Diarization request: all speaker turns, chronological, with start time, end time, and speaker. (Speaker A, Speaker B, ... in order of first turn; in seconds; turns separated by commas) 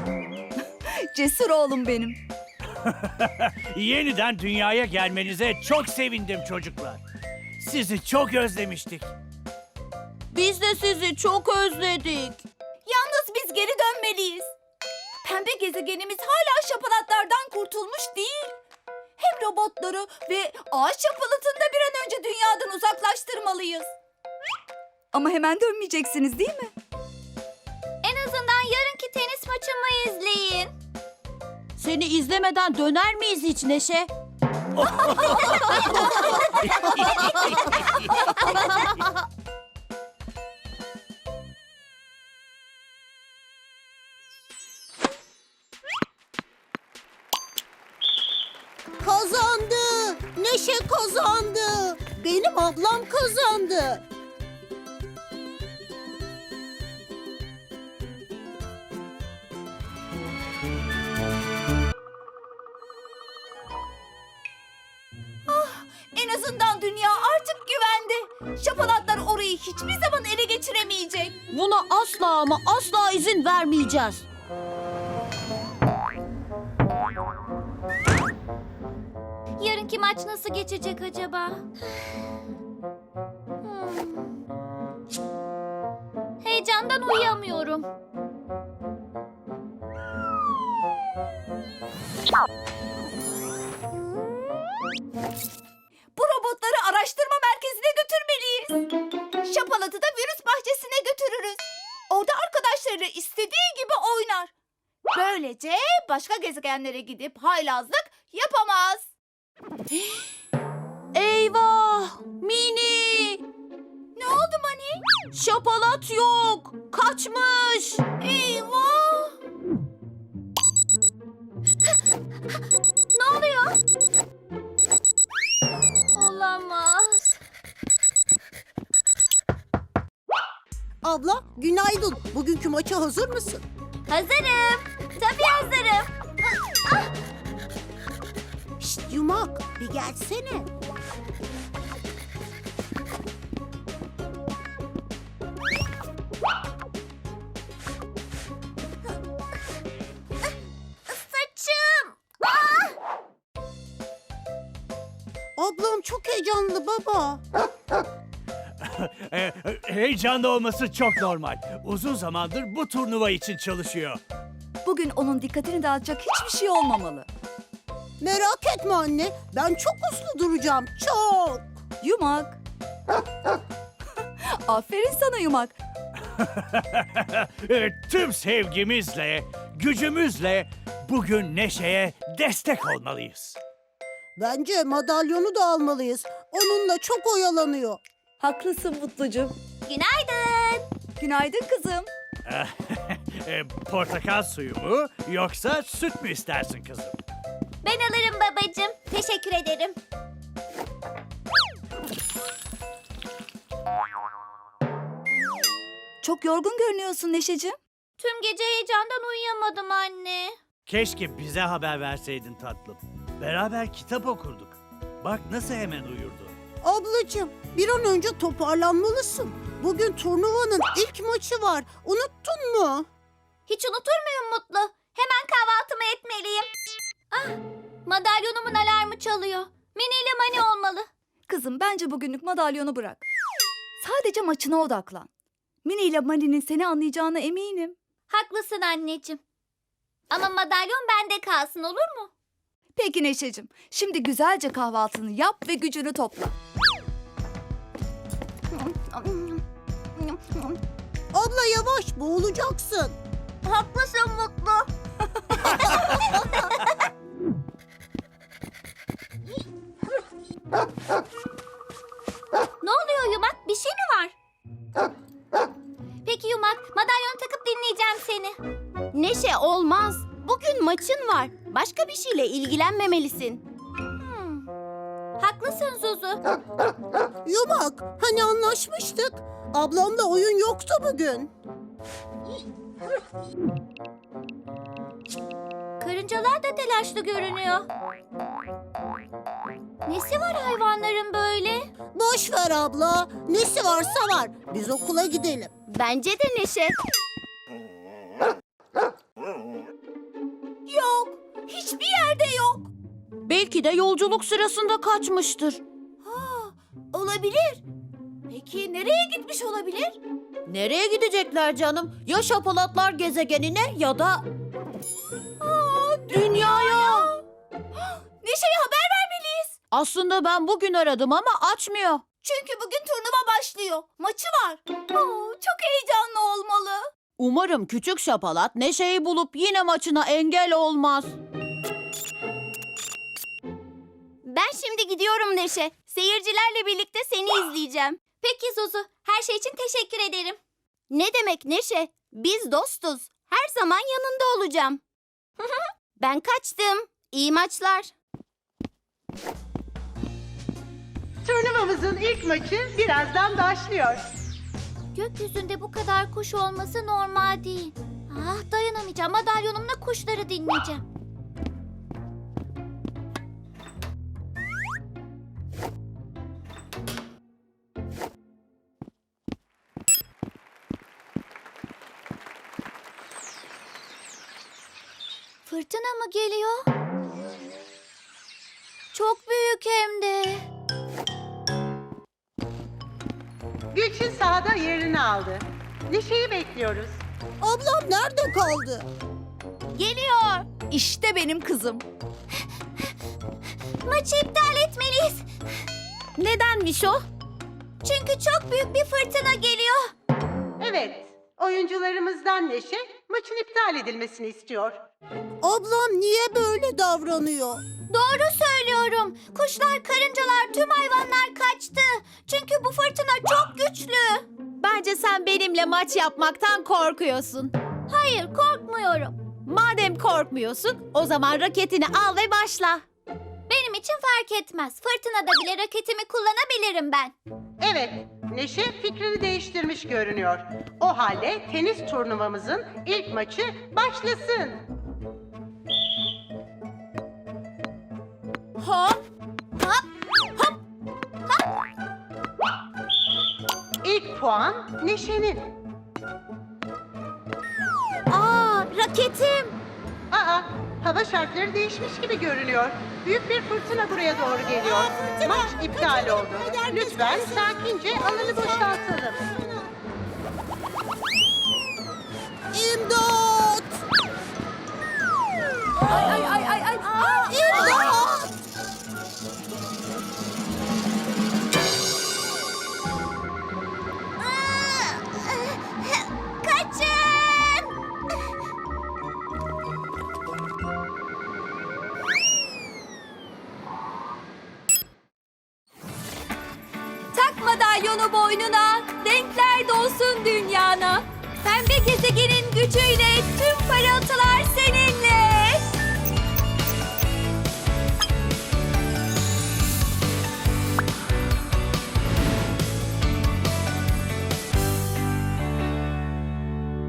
Speaker A: 0.9-2.2, Speaker B: 2.8-7.0, Speaker B: 7.6-9.1, Speaker C: 10.3-12.4, Speaker A: 12.9-14.5, Speaker A: 15.2-18.6, Speaker A: 19.2-23.9, Speaker A: 25.1-26.7, Speaker D: 28.0-30.7, Speaker C: 31.8-34.1, Speaker C: 35.2-36.4, Speaker C: 37.0-37.6, Speaker C: 38.5-38.9, Speaker E: 49.0-54.0, Speaker A: 65.5-71.4, Speaker C: 71.5-74.3, Speaker D: 79.6-81.7, Speaker D: 83.6-84.3, Speaker D: 86.4-87.9, Speaker A: 96.2-98.9, Speaker A: 99.4-104.5, Speaker A: 105.1-109.1, Speaker C: 111.1-113.4, Speaker A: 114.2-115.0, Speaker C: 115.3-118.1, Speaker A: 118.2-119.3, Speaker D: 123.1-123.8, Speaker D: 126.1-127.4, Speaker E: 131.0-133.7, Speaker D: 134.1-136.1, Speaker E: 138.8-140.7, Speaker D: 151.1-152.9, Speaker E: 155.6-157.4, Speaker B: 158.8-164.2, Speaker A: 164.8-167.3, Speaker E: 168.2-171.8, Speaker A: 172.0-172.6, Speaker A: 174.7-175.8, Speaker B: 176.3-183.6, Speaker E: 184.4-188.0, Speaker A: 188.4-189.6, Speaker D: 189.9-190.9, Speaker A: 191.2-192.1, Speaker B: 192.4-197.2, Speaker D: 197.8-200.0, Speaker A: 206.2-207.8, Speaker D: 208.2-210.6, Speaker B: 210.9-216.6, Speaker E: 216.8-223.1, Speaker D: 223.7-226.7, Speaker D: 227.3-231.1, Speaker A: 231.5-233.3, Speaker A: 234.0-235.3, Speaker A: 235.8-238.0, Speaker D: 238.3-239.4, Speaker D: 240.3-242.3, Speaker A: 243.0-246.6, Speaker F: 248.7-249.6, Speaker F: 250.2-250.8, Speaker E: 251.3-253.2, Speaker D: 253.6-254.9, Speaker D: 262.8-264.4, Speaker D: 266.2-268.6, Speaker F: 269.1-273.6, Speaker D: 274.2-274.6, Speaker D: 275.4-276.4, Speaker E: 277.4-281.5, Speaker D: 286.0-287.9, Speaker D: 290.1-291.9, Speaker E: 292.1-295.7, Speaker F: 295.9-297.0, Speaker A: 300.9-302.9, Speaker C: 303.5-305.8, Speaker F: 306.3-307.8, Speaker A: 308.5-310.2, Speaker C: 310.7-314.4, Speaker A: 315.6-317.4, Speaker C: 316.3-317.3, Speaker A: 318.0-319.8, Speaker C: 319.9-322.2, Speaker A: 322.4-327.1, Speaker C: 327.4-331.4, Speaker F: 334.4-338.2, Speaker D: 338.4-340.6, Speaker F: 341.1-345.0, Speaker F: 346.2-348.1, Speaker G: 351.4-354.2, Speaker D: 355.1-361.0, Speaker D: 375.7-376.9, Speaker D: 379.1-380.6, Speaker G: 383.9-387.2, Speaker E: 387.6-389.1, Speaker A: 390.0-392.1, Speaker F: 390.0-390.7, Speaker D: 394.1-395.5, Speaker C: 396.4-397.2, Speaker D: 398.0-400.1, Speaker G: 400.8-405.1, Speaker E: 405.6-407.8, Speaker D: 408.1-414.5, Speaker C: 414.8-417.7, Speaker D: 418.1-419.4, Speaker C: 419.7-423.0, Speaker D: 423.7-427.3, Speaker G: 427.8-434.8, Speaker D: 438.8-439.2, Speaker G: 444.0-445.7, Speaker D: 448.3-449.8, Speaker G: 450.3-459.4, Speaker E: 454.8-459.7, Speaker E: 462.7-464.0, Speaker A: 466.0-468.3, Speaker E: 467.4-468.5, Speaker D: 474.4-477.9, Speaker A: 487.3-495.9